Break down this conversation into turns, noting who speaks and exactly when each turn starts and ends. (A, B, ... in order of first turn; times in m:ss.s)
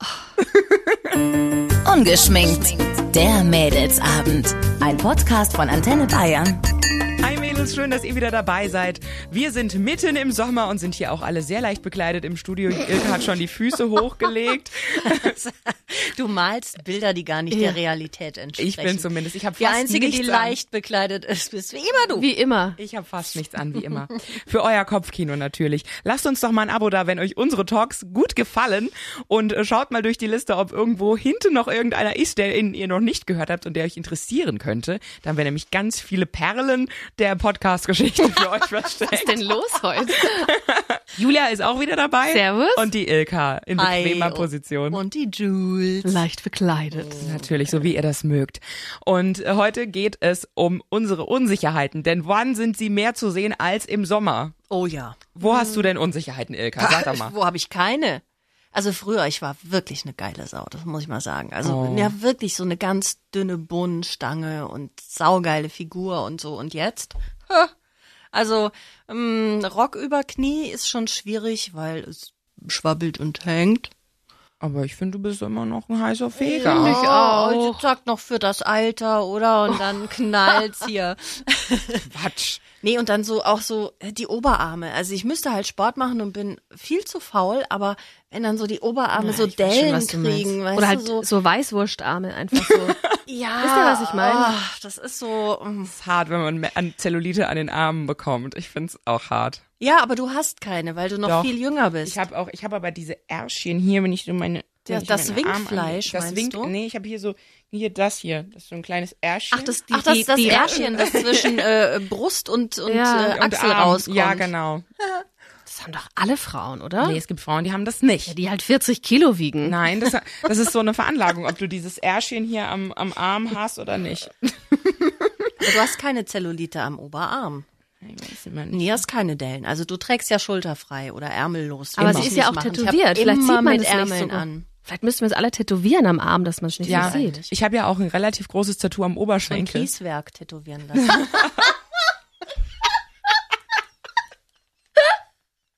0:01.8-0:06.6 A
0:07.2-0:15.3 B
0:15.0-0:22.3 C
0:17.5-0:17.8 D
0:18.6-0:20.6 B
0:22.1-0:22.8 D
0:22.8-0:39.4 B
0:39.1-0:40.5 D
0:40.2-0:45.0 B
0:42.3-0:42.9 D
0:43.8-0:46.2 C
0:46.0-0:47.2 D
0:46.9-0:47.9 C
0:47.2-0:54.5 B
0:54.7-0:55.9 C
0:55.4-0:57.3 B
0:56.8-0:58.2 C
0:58.7-1:07.7 C
1:01.6-1:02.1 B
1:08.3-1:13.9 C
1:14.6-1:17.0 B
1:16.4-1:22.1 C
1:16.6-1:17.8 D
1:22.1-1:22.6 B
1:22.8-1:31.2 C
1:29.2-1:33.0 D
1:29.6-1:30.0 B
1:32.6-1:33.2 B
1:33.3-1:35.9 C
1:33.6-1:34.5 D
1:35.9-1:39.6 B
1:39.8-1:42.2 C
1:41.2-1:41.5 B
1:42.0-1:49.8 B
1:44.9-1:46.7 C
1:49.5-1:51.0 D
1:49.9-1:54.5 C
1:50.4-1:51.2 B
1:52.9-1:53.4 D
1:53.3-1:54.8 B
1:55.7-1:57.2 D
1:57.0-1:58.3 B
1:58.3-1:59.8 D
1:59.6-2:05.3 B
2:05.6-2:07.6 C
2:08.0-2:09.0 B
2:08.7-2:14.7 C
2:12.0-2:12.3 B
2:12.0-2:17.4 D
2:16.8-2:17.5 C
2:16.9-2:19.9 B
2:19.5-2:21.6 C
2:21.1-2:21.4 B